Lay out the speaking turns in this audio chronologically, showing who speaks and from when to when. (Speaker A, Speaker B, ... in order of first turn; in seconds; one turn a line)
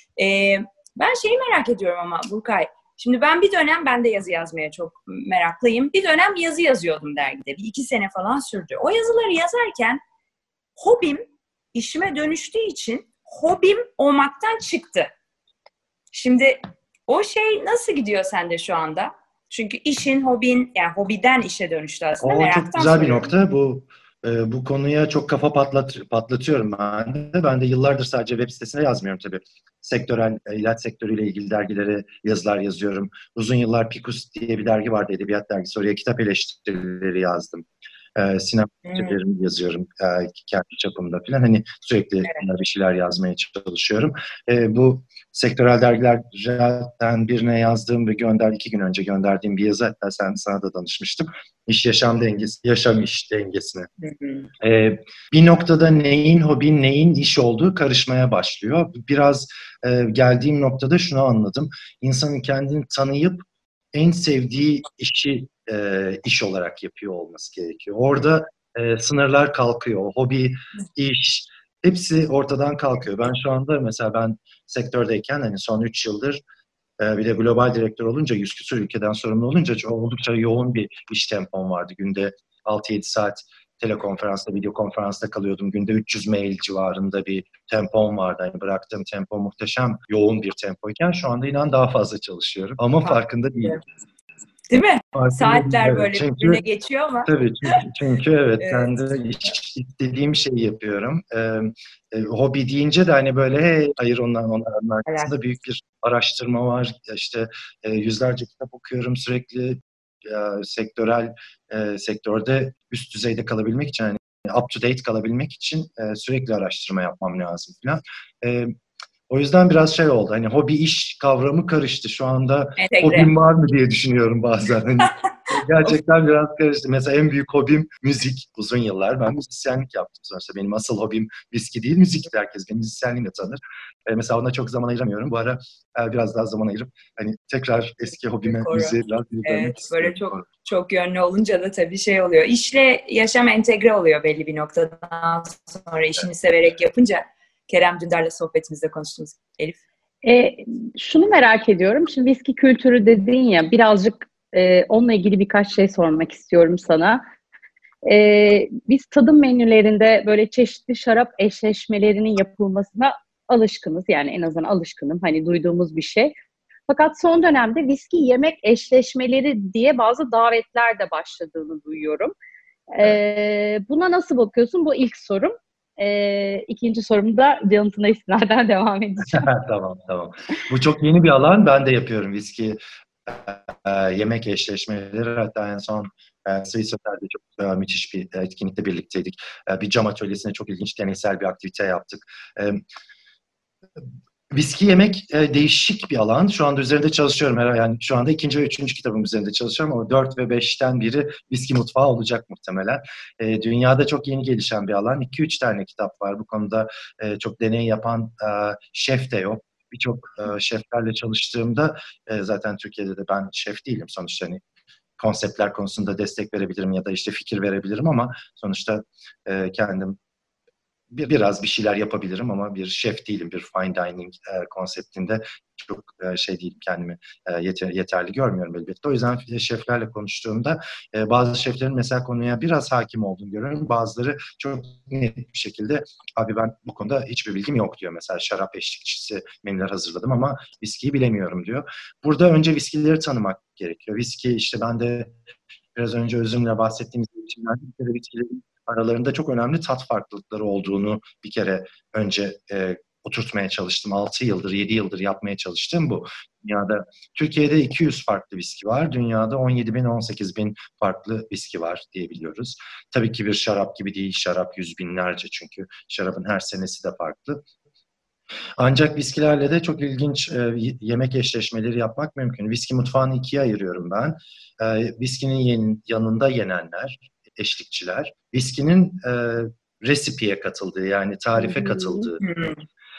Speaker A: 0.2-10.0
Speaker A: 10.8-15.1
Speaker A: 16.1-23.3
Speaker B: 22.2-53.9
Speaker A: 38.9-39.2
Speaker A: 54.0-54.5
Speaker B: 54.6-76.4
Speaker B: 77.0-93.8
Speaker A: 94.7-97.3
Speaker B: 95.1-96.6
Speaker B: 97.2-118.7
Speaker A: 98.6-99.0
Speaker A: 105.1-105.3
Speaker B: 119.3-140.5
Speaker A: 122.8-123.3
Speaker A: 138.4-149.8
Speaker C: 150.2-157.2
Speaker C: 158.1-166.3
Speaker C: 166.9-172.3
Speaker C: 172.9-179.5
Speaker B: 179.2-192.8
Speaker B: 194.5-214.6
Speaker B: 215.2-220.2
Speaker B: 221.1-245.4
Speaker B: 245.9-267.6
Speaker B: 268.8-282.4
Speaker C: 281.6-282.3
Speaker A: 282.4-282.8